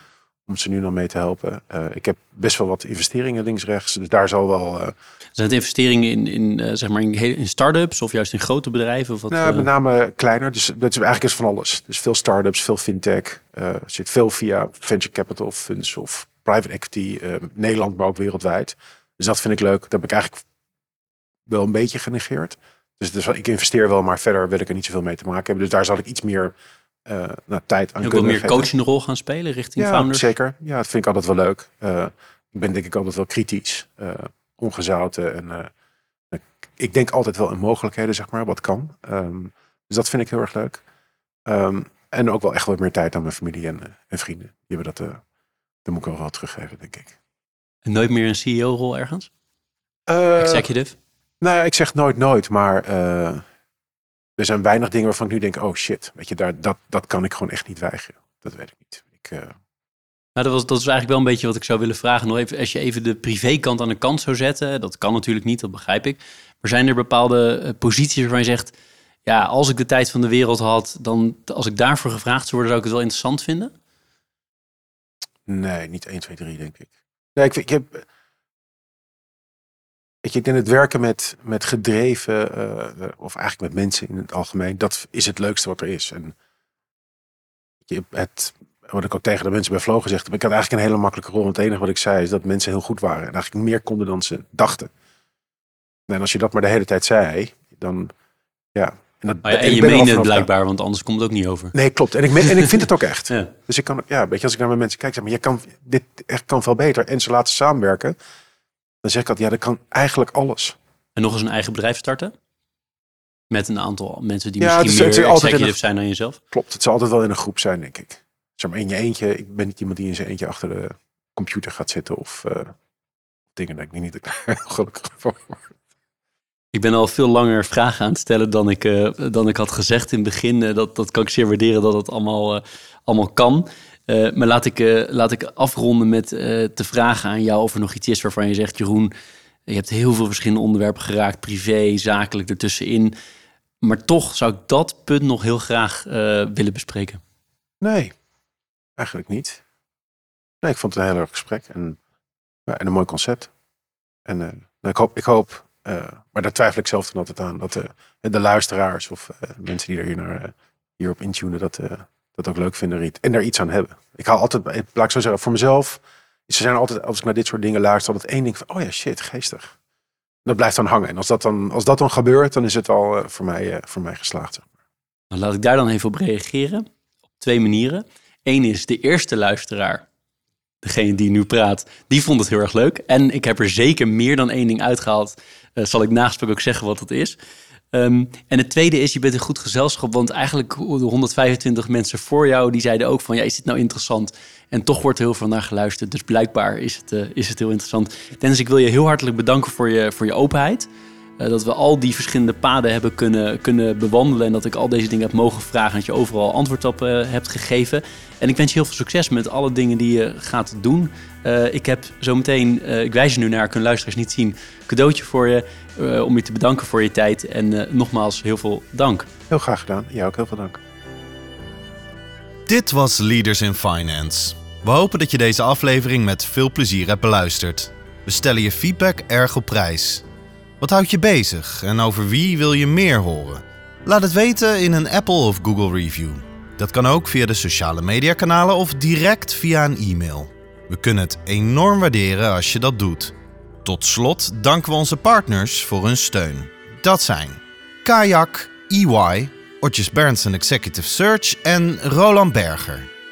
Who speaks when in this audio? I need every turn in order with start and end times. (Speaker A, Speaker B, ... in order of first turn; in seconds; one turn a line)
Speaker A: 0.5-4.9
Speaker B: 5.3-9.7
Speaker A: 9.3-20.4
Speaker A: 21.5-26.5
Speaker A: 27.1-28.7
Speaker B: 28.0-30.3
Speaker A: 29.8-35.7
Speaker A: 36.3-40.8
Speaker A: 41.5-45.2
Speaker A: 45.8-47.1
Speaker B: 47.8-49.3
Speaker A: 50.1-50.7
Speaker B: 50.4-50.9
Speaker A: 51.4-53.4
Speaker A: 54.4-59.5
Speaker B: 60.4-68.7
Speaker B: 69.2-73.7
Speaker A: 75.5-78.0
Speaker A: 80.2-86.3
Speaker A: 87.8-94.9
Speaker A: 96.1-98.1
Speaker A: 98.7-100.5
Speaker B: 99.4-101.7
Speaker A: 101.7-108.2
Speaker B: 102.3-103.5
Speaker A: 109.0-110.8
Speaker B: 111.2-112.3
Speaker B: 113.5-116.4
Speaker A: 114.6-115.8
Speaker A: 116.5-122.7
Speaker A: 123.5-125.7
Speaker B: 126.7-139.1
Speaker B: 139.7-143.1
Speaker B: 143.8-147.2
Speaker A: 147.8-148.1
Speaker A: 149.0-149.6
Speaker A: 150.6-152.0
Speaker A: 152.7-153.5
Speaker A: 154.2-169.7
Speaker A: 170.4-174.7
Speaker B: 175.3-176.8
Speaker B: 177.4-180.1
Speaker B: 180.8-187.4
Speaker B: 187.9-200.9
Speaker B: 201.4-219.3
Speaker A: 219.5-220.8
Speaker C: 222.7-230.2
Speaker C: 230.8-253.1